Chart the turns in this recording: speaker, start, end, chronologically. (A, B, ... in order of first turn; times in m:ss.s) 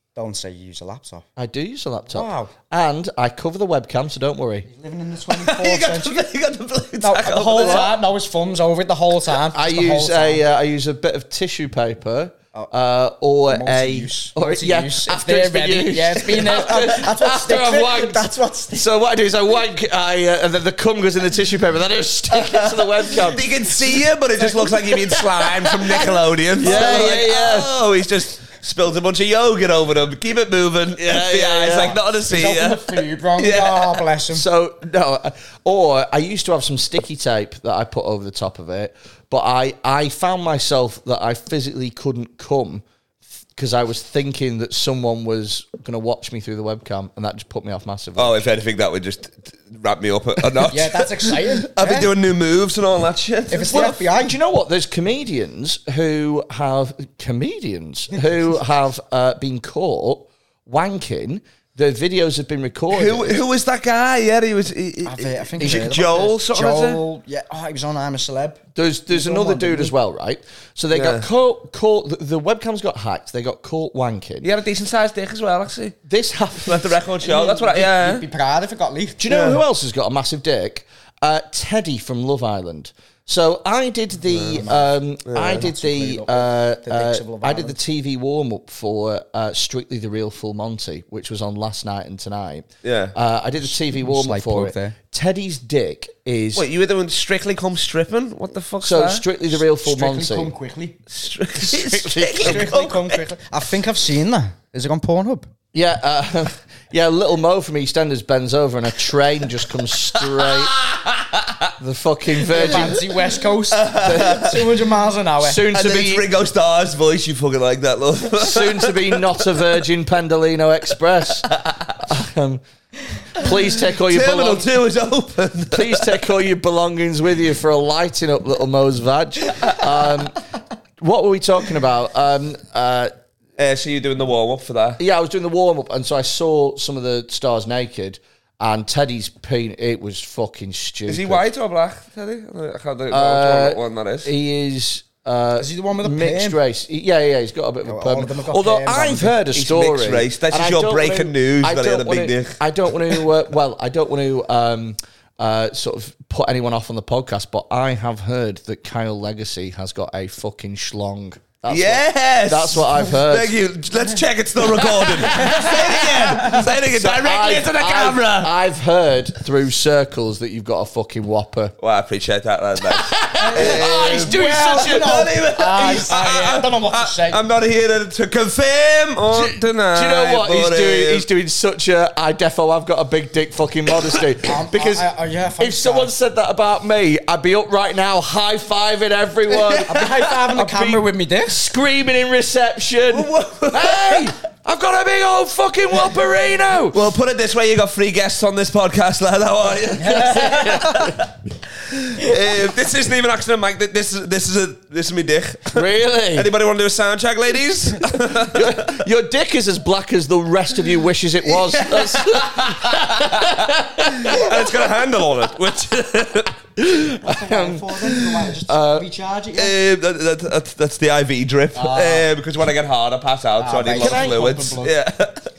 0:00.1-0:01.2 A
0:01.4-0:04.7 B
0:02.1-0:02.5 A
0:04.7-0:06.2 A
0:05.3-0:07.9 C
0:07.0-0:10.4 A
0:09.5-0:18.2 B
0:13.5-0:18.8 A
0:18.7-0:23.5 B
0:22.4-0:34.0 C
0:24.8-0:26.0 B
0:26.6-0:27.7 B
0:31.0-0:32.0 B
0:32.3-0:34.4 A
0:34.3-0:42.8 B
0:43.6-0:48.4 B
0:48.2-0:53.9 C
0:50.7-0:52.1 A
0:53.5-0:54.4 A
0:53.7-1:03.4 B
1:02.9-1:07.0 C
1:05.0-1:09.9 A
1:08.7-1:14.5 B
1:10.9-1:11.3 C
1:14.4-1:16.0 C
1:16.0-1:17.0 B
1:16.6-1:18.2 C
1:17.2-1:19.3 A
1:19.2-1:36.6 B
1:19.3-1:19.6 C
1:24.3-1:24.6 C
1:24.5-1:24.8 A
1:25.3-1:25.6 C
1:25.4-1:27.8 A
1:32.8-1:33.1 C
1:33.6-1:35.0 A
1:36.5-1:39.2 C
1:38.8-1:40.5 B
1:39.5-1:41.0 A
1:41.1-1:43.2 C
1:41.6-1:42.7 B
1:41.9-1:45.5 A
1:45.7-1:50.8 B
1:50.3-1:51.5 C
1:51.8-1:53.0 B
1:52.5-1:55.6 A
1:53.7-1:54.7 C
1:54.0-1:54.5 B
1:55.4-1:56.2 B
1:55.7-1:59.4 C
1:58.4-2:02.6 B
2:01.5-2:01.8 C
2:03.3-2:04.7 B
2:03.4-2:06.2 C
2:05.7-2:10.4 B
2:11.0-2:13.1 B
2:13.6-2:15.0 C
2:15.0-2:21.4 B
2:21.1-2:24.3 C
2:23.1-2:43.5 B
2:25.6-2:26.6 A
2:27.8-2:29.4 A
2:29.5-2:33.2 C
2:41.7-2:48.5 C
2:45.0-2:51.7 B
2:45.3-2:46.6 A
2:51.8-3:01.2 C
2:52.9-2:55.3 B
2:53.4-2:57.4 A
2:59.3-3:05.1 B
3:04.4-3:06.1 A
3:05.6-3:17.0 B
3:09.5-3:09.9 C
3:09.9-3:11.6 A
3:13.1-3:14.3 C
3:16.9-3:21.3 C
3:20.0-3:21.2 B
3:20.0-3:20.8 A
3:21.8-3:29.0 C
3:25.7-3:26.5 B
3:28.3-3:34.7 B
3:31.5-3:36.6 C
3:36.8-3:39.0 B
3:37.2-3:39.8 A
3:39.6-3:45.5 C
3:41.7-3:42.3 A
3:43.6-3:44.9 A
3:43.9-3:44.5 B